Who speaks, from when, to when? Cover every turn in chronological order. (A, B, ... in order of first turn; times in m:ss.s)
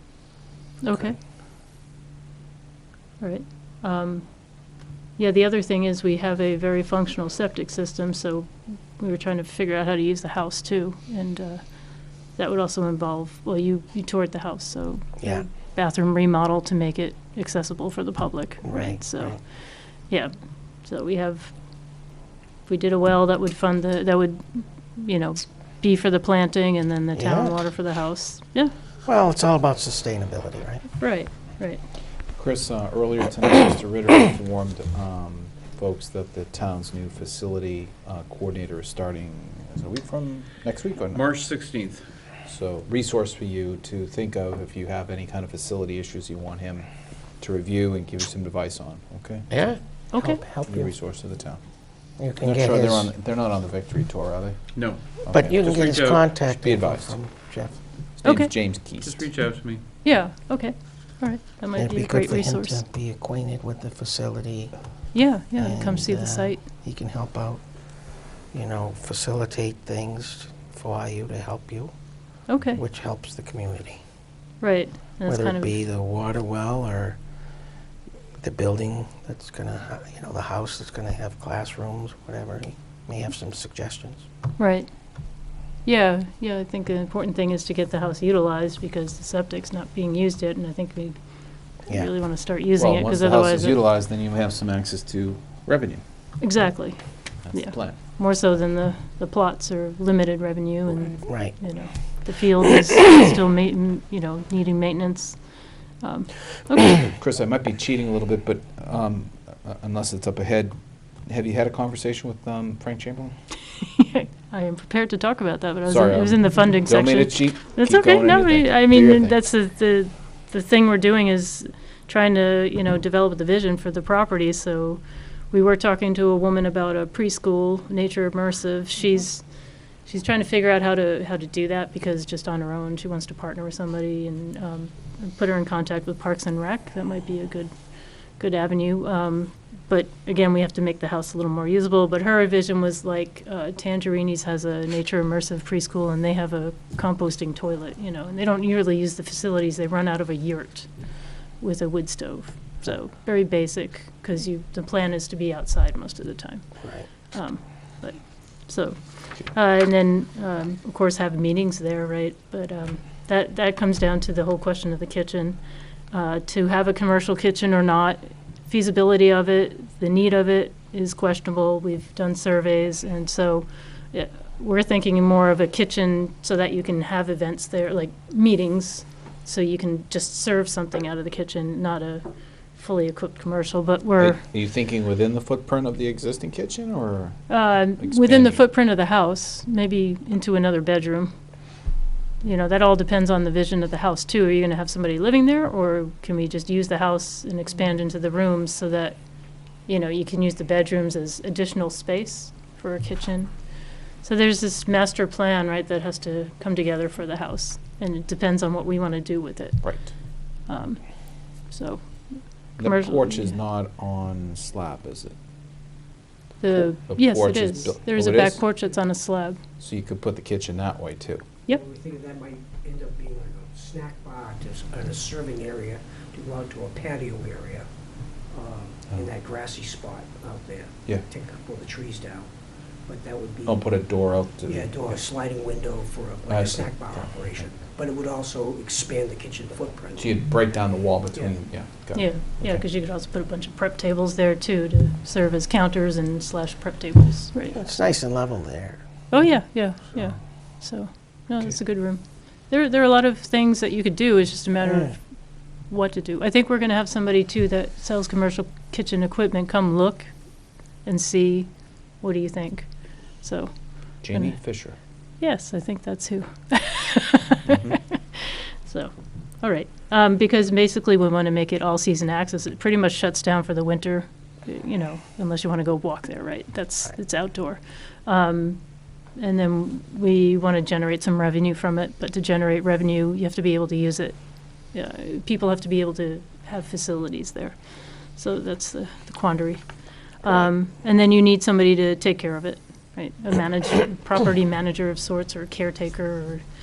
0:00.8-0:01.2 A
0:03.2-0:04.6 A
0:05.2-0:19.4 A
0:15.2-0:15.5 B
0:18.6-0:19.4 B
0:20.8-0:21.5 A
0:22.7-0:28.7 A
0:27.1-0:27.6 B
0:29.0-0:30.9 B
0:31.0-0:31.8 A
0:32.4-0:41.3 C
0:41.1-0:42.0 D
0:42.4-0:46.9 C
0:47.4-0:49.5 C
0:49.5-0:50.9 B
0:50.1-0:50.4 A
0:50.6-0:51.6 C
0:52.2-0:53.1 B
0:52.4-0:54.7 C
0:54.7-0:56.2 D
0:55.2-0:55.6 C
0:55.3-0:57.8 B
0:56.3-0:57.2 C
0:58.2-0:59.2 C
0:58.2-0:58.5 A
0:58.8-0:59.8 D
1:00.0-1:02.8 A
1:01.8-1:04.7 B
1:05.1-1:06.6 A
1:05.6-1:07.6 B
1:08.5-1:11.9 B
1:12.5-1:12.8 A
1:12.7-1:14.0 B
1:14.6-1:15.8 A
1:15.2-1:17.2 B
1:18.4-1:24.2 B
1:24.6-1:24.9 A
1:25.8-1:31.2 A
1:31.8-1:33.8 A
1:32.8-1:36.0 C
1:36.4-1:45.4 A
1:37.5-1:38.0 C
1:41.2-1:41.6 B
1:46.0-1:47.1 A
1:47.2-1:53.3 C
1:53.8-2:09.4 A
1:55.8-1:59.4 C
2:10.0-2:17.7 A
2:18.4-2:30.9 A
2:31.6-2:45.6 A
2:36.8-2:37.1 B
2:46.1-3:04.4 A
3:04.2-3:07.5 C
3:07.5-3:11.3 A
3:08.0-3:08.6 C
3:12.4-3:19.2 A
3:19.8-3:33.6 A
3:29.8-3:30.1 C
3:32.8-3:35.4 C
3:36.6-3:39.6 A
3:37.1-3:38.6 C
3:39.8-3:41.4 C
3:41.7-3:47.8 E
3:48.5-3:52.5 E
3:53.1-3:53.8 E
3:53.6-3:55.2 C
3:54.6-4:00.3 E
3:56.5-3:57.6 C
4:00.1-4:02.8 C
4:02.1-4:07.8 A
4:07.7-4:09.0 B
4:09.3-4:20.3 A
4:14.8-4:15.1 B
4:21.0-4:24.6 A
4:24.2-4:25.0 C
4:25.4-4:44.4 A
4:27.6-4:28.0 C
4:44.9-4:47.8 A
4:48.3-4:49.8 A
4:50.4-4:56.6 A